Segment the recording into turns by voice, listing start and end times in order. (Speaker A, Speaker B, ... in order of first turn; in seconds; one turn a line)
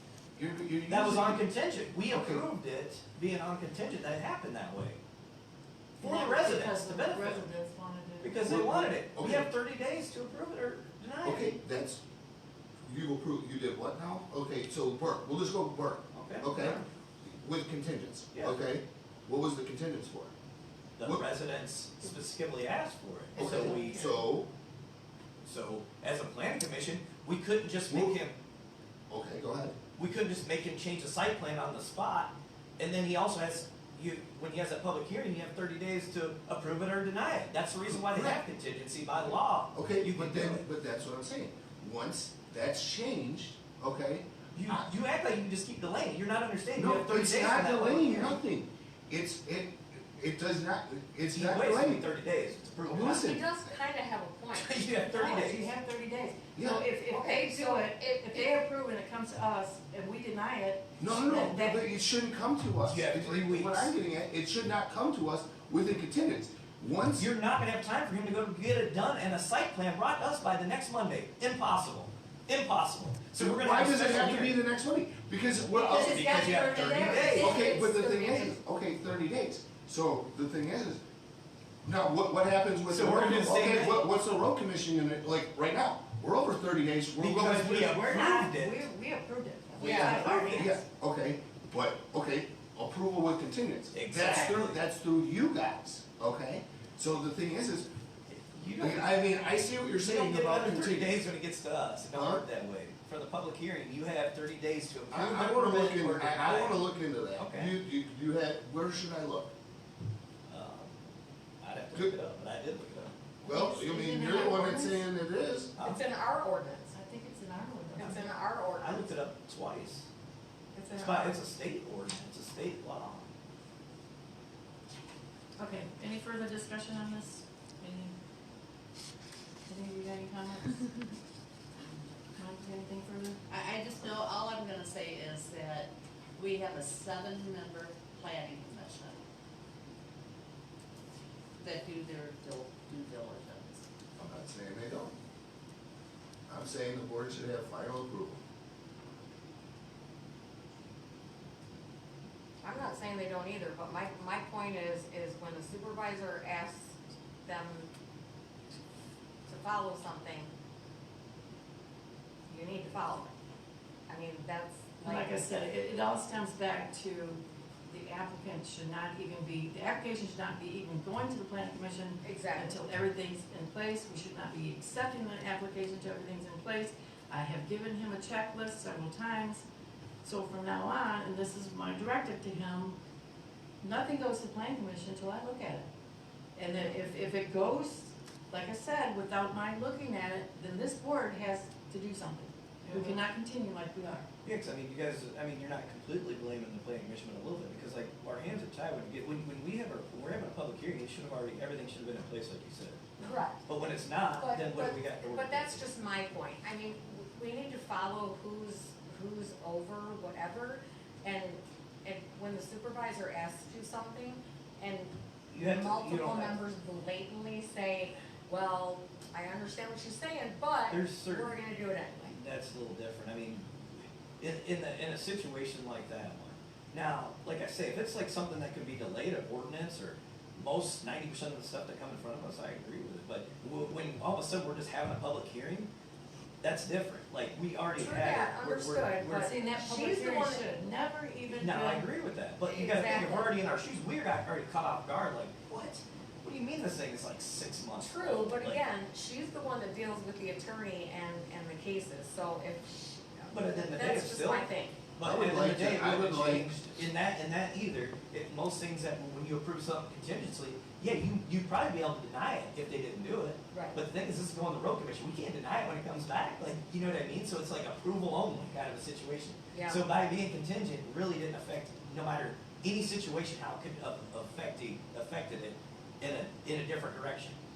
Speaker A: 0.3-1.5
Speaker B: 0.9-5.0
Speaker A: 2.1-2.5
Speaker C: 6.0-8.4
Speaker B: 6.0-7.5
Speaker B: 8.2-11.6
Speaker A: 8.4-9.5
Speaker A: 11.2-12.0
Speaker A: 12.8-20.3
Speaker B: 16.1-16.9
Speaker B: 21.0-24.2
Speaker A: 23.3-24.5
Speaker B: 25.4-28.3
Speaker A: 27.9-28.2
Speaker A: 29.1-29.8
Speaker B: 30.0-40.6
Speaker A: 37.9-38.5
Speaker A: 39.7-44.9
Speaker B: 44.5-48.4
Speaker A: 46.7-52.1
Speaker B: 51.3-53.4
Speaker A: 52.9-53.7
Speaker D: 53.1-54.8
Speaker B: 54.5-55.7
Speaker C: 55.1-61.9
Speaker A: 56.5-56.8
Speaker D: 57.1-58.6
Speaker A: 61.0-67.3
Speaker B: 62.8-63.9
Speaker B: 67.2-74.6
Speaker A: 73.3-81.0
Speaker B: 75.9-77.6
Speaker D: 75.9-78.5
Speaker E: 76.0-76.8
Speaker C: 76.1-77.2
Speaker E: 77.3-77.7
Speaker A: 81.8-88.0
Speaker B: 82.8-84.0
Speaker B: 87.2-88.8
Speaker C: 87.9-90.8
Speaker D: 89.8-90.2
Speaker B: 89.8-90.7
Speaker A: 89.8-97.9
Speaker B: 93.9-94.8
Speaker B: 98.3-106.8
Speaker A: 98.8-101.3
Speaker A: 102.1-102.4
Speaker A: 105.1-109.5
Speaker B: 107.3-107.7
Speaker B: 110.5-111.0
Speaker B: 111.6-113.1
Speaker C: 113.4-115.1
Speaker A: 113.4-115.7
Speaker B: 115.8-116.0
Speaker D: 115.8-116.9
Speaker C: 116.9-118.3
Speaker D: 118.0-119.0
Speaker B: 118.8-120.1
Speaker D: 120.7-121.3
Speaker B: 121.0-123.3
Speaker C: 125.6-128.1
Speaker C: 129.7-131.1
Speaker C: 132.2-133.4
Speaker E: 133.5-139.2
Speaker E: 141.6-143.8
Speaker A: 144.2-145.1
Speaker A: 146.5-148.4
Speaker D: 152.6-157.9
Speaker D: 159.5-160.5
Speaker D: 162.5-163.3
Speaker D: 164.1-165.5
Speaker C: 165.0-179.6
Speaker D: 172.2-172.8
Speaker C: 180.2-183.0
Speaker C: 183.8-185.8
Speaker C: 186.5-194.2
Speaker B: 194.4-205.8
Speaker D: 203.2-203.6
Speaker D: 204.3-222.3
Speaker B: 215.5-216.6
Speaker B: 220.9-221.6
Speaker B: 222.3-235.9
Speaker B: 236.6-239.5
Speaker D: 237.9-240.7
Speaker C: 239.4-242.1
Speaker B: 241.5-248.8
Speaker D: 242.6-243.5
Speaker D: 248.0-255.0
Speaker B: 253.5-277.6
Speaker A: 255.2-256.7
Speaker D: 263.7-264.0
Speaker D: 269.7-270.0